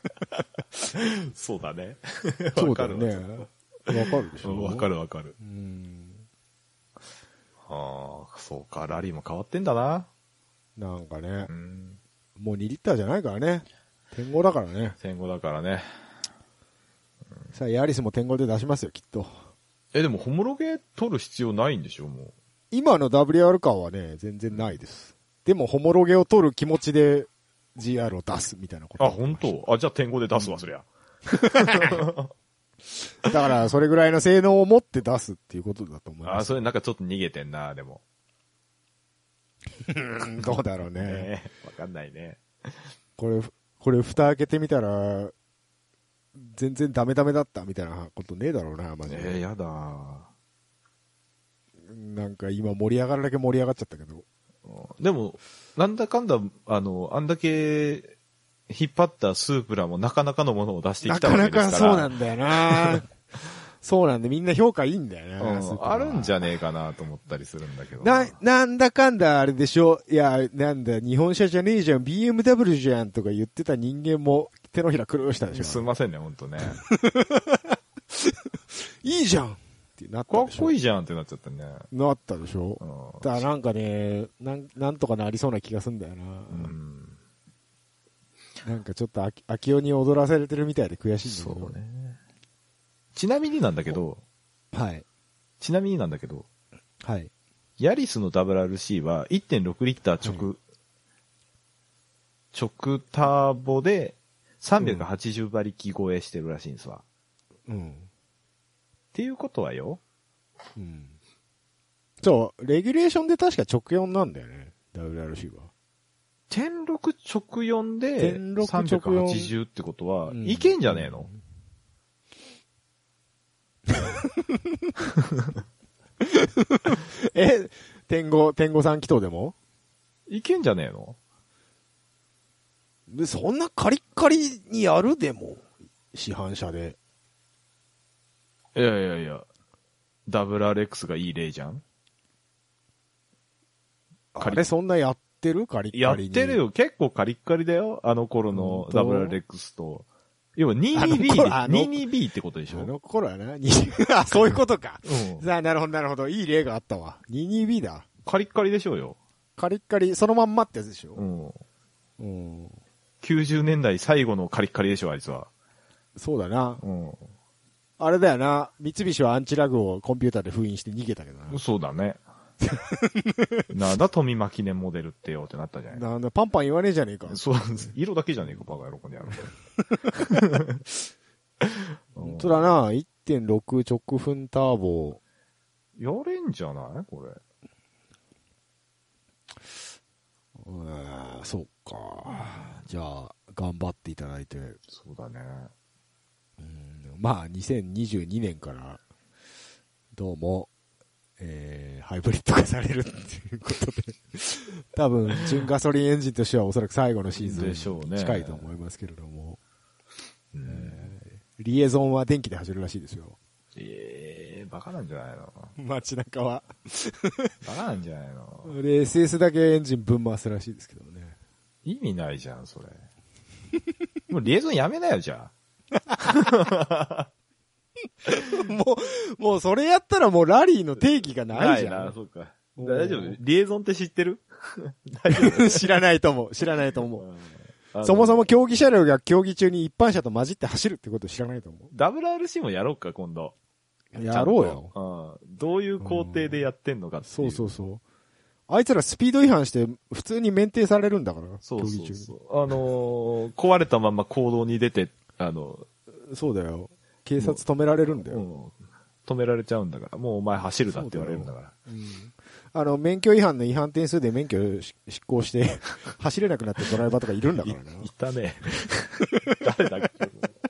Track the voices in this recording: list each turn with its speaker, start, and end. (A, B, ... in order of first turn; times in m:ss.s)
0:00.9-0:03.5 A
0:02.6-0:06.2 B
0:04.4-0:05.3 A
0:07.7-0:10.1 A
0:10.8-0:11.5 B
0:11.5-0:12.0 A
0:12.4-0:15.0 B
0:15.0-0:15.8 A
0:17.5-0:19.4 B
0:19.9-0:22.3 A
0:22.7-0:29.5 B
0:29.0-0:32.3 A
0:31.5-0:32.0 B
0:33.2-0:36.5 B
0:36.2-0:38.0 A
0:39.8-0:41.3 B
0:41.0-0:42.7 A
0:43.2-0:45.3 B
0:46.3-0:49.4 B
0:49.0-0:50.3 A
0:51.8-0:54.2 B
0:54.6-0:58.1 A
0:58.7-1:02.1 A
1:01.0-1:03.1 B
1:02.7-1:03.0 A
1:03.8-1:06.5 B
1:05.4-1:08.3 A
1:08.0-1:15.9 B
1:15.5-1:16.8 A
1:16.8-1:20.7 B
1:20.3-1:21.9 A
1:21.9-1:26.7 B
1:22.8-1:23.4 A
1:26.5-1:27.2 A
1:28.6-1:31.7 B
1:31.2-1:32.2 A
1:33.1-1:34.2 A
1:34.7-1:35.0 B
1:35.6-1:36.4 A
1:37.0-1:37.3 B
1:37.8-1:40.6 A
1:40.2-1:40.5 B
1:42.5-1:47.0 A
1:44.8-1:45.1 B
1:47.7-1:48.1 B
1:49.1-1:50.0 A
1:50.8-1:51.1 B
1:52.2-1:55.7 B
1:56.5-2:01.3 A
1:58.2-1:59.5 B
2:00.3-2:01.4 B
2:03.9-2:04.2 B
2:06.2-2:09.5 B
2:10.3-2:11.2 A
2:13.1-2:17.0 B
2:18.8-2:19.4 A
2:20.3-2:21.8 A
2:24.3-2:26.6 B
2:24.4-2:24.6 A
2:25.9-2:32.9 A
2:28.5-2:29.4 B
2:30.9-2:32.0 B
2:32.7-2:38.0 B
2:35.0-2:35.4 A
2:38.2-2:39.2 A
2:39.6-2:41.2 B
2:41.1-2:41.6 A
2:42.2-2:42.8 B
2:43.2-2:45.5 A
2:46.2-2:46.8 B
2:46.8-2:47.2 A
2:48.0-2:51.6 B
2:51.5-2:52.2 A
2:52.6-2:53.6 B
2:53.7-2:56.0 A
2:55.9-2:57.4 B
2:57.3-2:59.5 A
3:00.1-3:00.8 A
3:01.6-3:02.6 A
3:02.2-3:05.2 B
3:06.0-3:07.4 A
3:10.6-3:14.8 B
3:12.3-3:12.8 A
3:14.9-3:15.7 A
3:16.6-3:19.0 B
3:20.1-3:20.7 B
3:21.4-3:29.6 B
3:27.4-3:28.7 A
3:30.5-3:31.1 A
3:30.6-3:33.4 B
3:33.8-3:35.7 A
3:35.8-3:37.5 B
3:37.6-3:38.8 A
3:38.6-3:41.4 B
3:41.8-3:43.0 A
3:44.3-3:45.5 A
3:46.1-3:46.5 B
3:46.2-3:47.3 A
3:48.3-3:52.1 B
3:51.5-3:55.9 A
3:52.8-3:53.4 B
3:55.3-3:57.3 B
3:57.2-3:58.4 A
3:58.0-4:01.9 B
4:01.9-4:03.5 A
4:04.1-4:04.9 B
4:04.2-4:07.7 A
4:06.0-4:06.6 B
4:07.2-4:08.0 B
4:08.7-4:12.3 B
4:11.6-4:15.9 A
4:16.2-4:18.4 B
4:17.4-4:21.7 A
4:20.9-4:28.1 B
4:27.6-4:30.6 A